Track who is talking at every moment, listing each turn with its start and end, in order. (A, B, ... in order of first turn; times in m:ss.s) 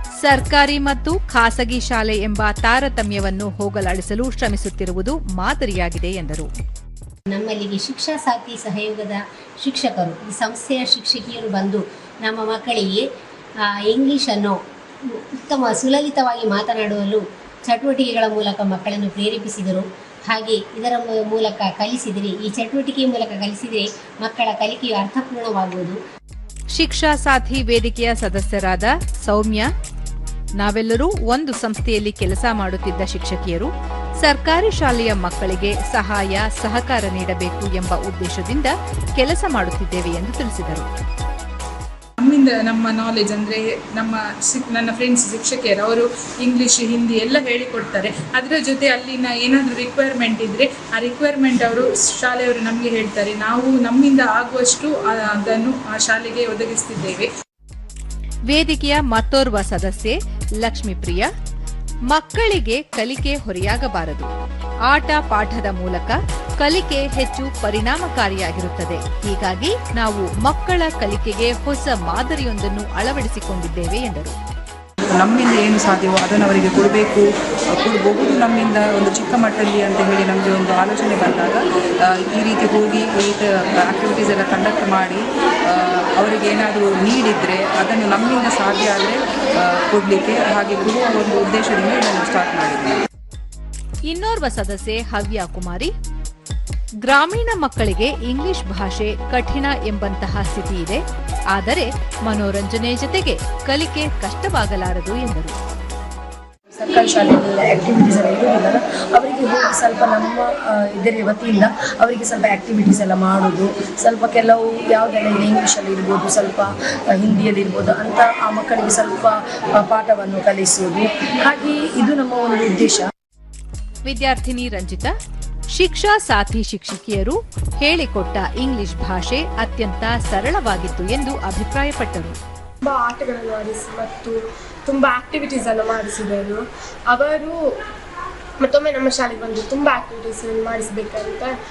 0:00.2-0:06.5 A
0:07.3-0:13.0 B
0:13.7-0:14.6 B
0:15.1-0:26.0 B
0:26.7-0:29.7 A
0:30.6-0:33.7 A
0:34.2-0:40.9 A
0:42.2-0:57.3 C
0:58.5-1:01.3 A
1:02.1-1:04.3 A
1:04.9-1:14.4 A
1:15.1-1:33.0 D
1:34.1-1:35.9 A
1:37.0-1:45.6 A
1:46.8-2:03.1 E
2:04.0-2:05.1 A
2:05.7-2:12.4 A
2:12.9-2:17.6 F
2:18.6-2:21.5 F